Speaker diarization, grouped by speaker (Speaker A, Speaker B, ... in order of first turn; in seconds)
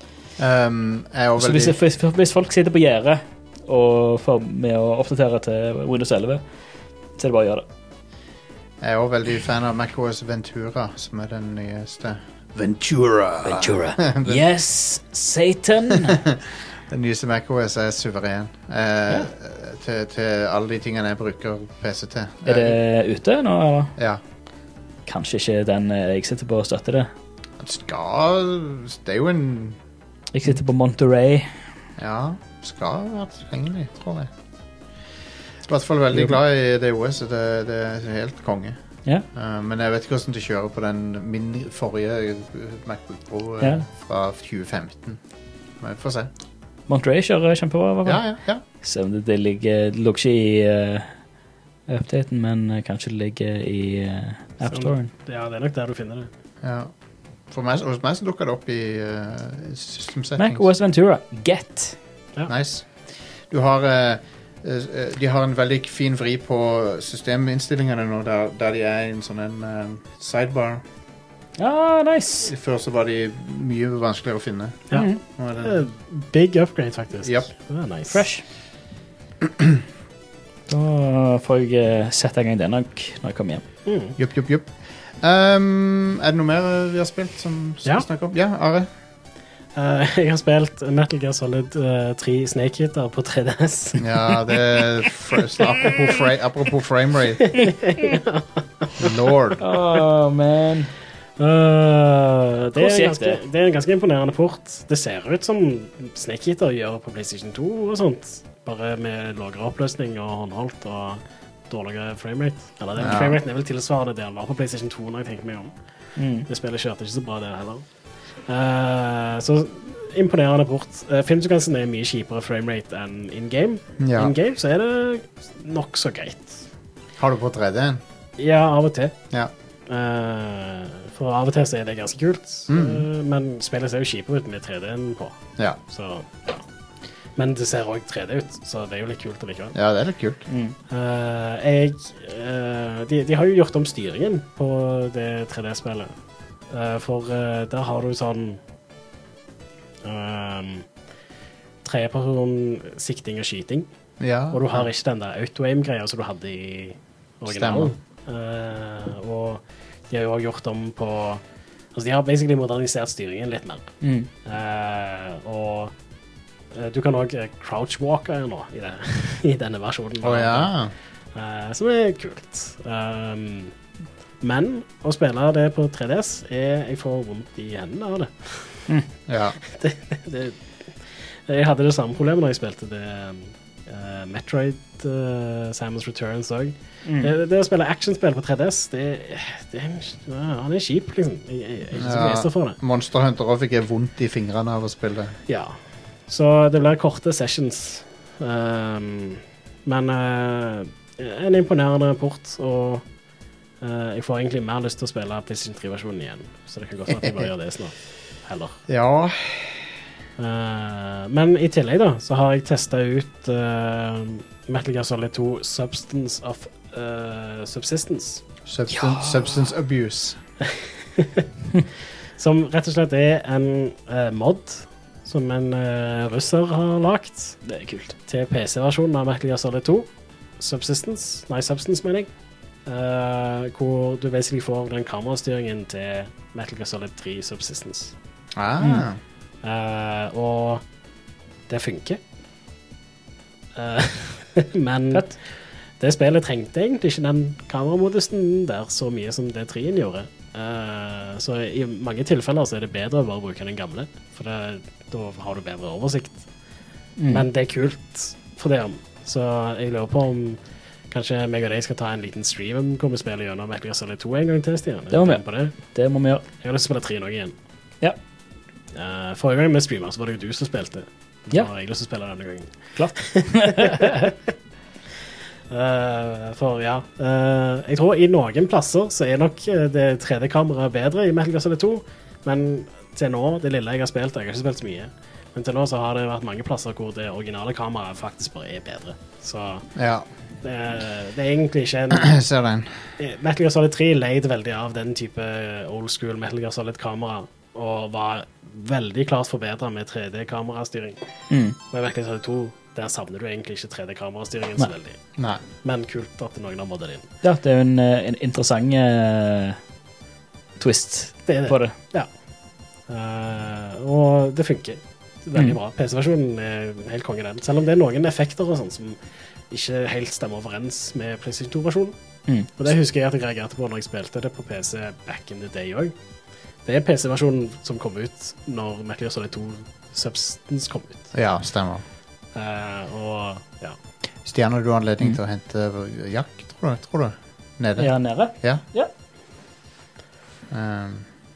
Speaker A: 0.4-1.8, 8.8-14.4, 15.9-22.8, 27.6-29.8, 32.0-34.3, 35.7-38.8, 39.3-45.2, 45.8-46.3, 48.0-48.6, 56.6-56.9, 57.5-60.7, 62.5-70.8, 72.5-75.8, 77.2-77.5, 79.4-79.8, 84.2-88.9, 94.0-97.6, 99.0-99.6, 113.0-113.4, 124.0-124.3, 127.2-128.0, 132.7-133.0, 139.7-140.4, 154.2-154.9, 157.5-157.9, 170.2-170.9, 179.3-179.6, 192.0-195.4, 208.9-209.9, 218.7-220.4, 238.6-239.2, 290.0-290.3, 292.1-293.0, 331.3-332.0, 334.4-338.8, 340.7-341.3
Speaker B: 1.4-6.4, 7.2-7.7, 13.4-16.2, 22.5-23.9, 25.1-27.1, 30.3-31.5, 46.9-51.2, 51.9-55.1, 60.4-62.0, 71.6-72.5, 74.9-75.2, 78.1-78.4, 80.7-83.6, 99.6-100.9, 102.8-103.4, 116.2-116.5, 140.5-140.8, 164.0-164.3, 187.1-187.3, 218.9-219.5, 227.7-228.2, 238.8-239.1, 257.2-257.5, 265.1-266.4, 273.0-274.1, 301.5-301.8, 307.4-309.8, 310.8-311.9, 338.0-339.1
Speaker C: 54.6-56.3, 75.6-78.2, 83.9-84.2, 89.8-94.1, 97.4-99.1, 101.4-115.7, 116.5-117.8, 118.5-126.6, 128.4-129.2, 129.9-136.6, 137.4-139.8, 140.9-146.1, 146.7-148.6, 150.0-150.9, 151.8-153.9, 154.5-161.4, 161.9-163.9, 164.4-165.9, 166.7-170.7, 171.3-173.7, 174.4-178.9, 179.6-192.8, 195.5-203.1, 203.8-208.8, 210.4-218.4, 220.7-221.5, 222.4-227.6, 228.3-232.3, 232.9-238.1, 239.6-240.8, 241.7-242.2, 243.8-245.4, 246.0-256.5, 257.3-260.6, 261.1-265.8, 266.6-267.5, 268.9-274.4, 275.7-289.9, 290.6-292.3, 293.2-301.2, 301.9-305.2, 305.8-307.3, 311.5-312.3, 313.1-322.1, 322.8-326.1, 326.9-331.3, 332.6-334.0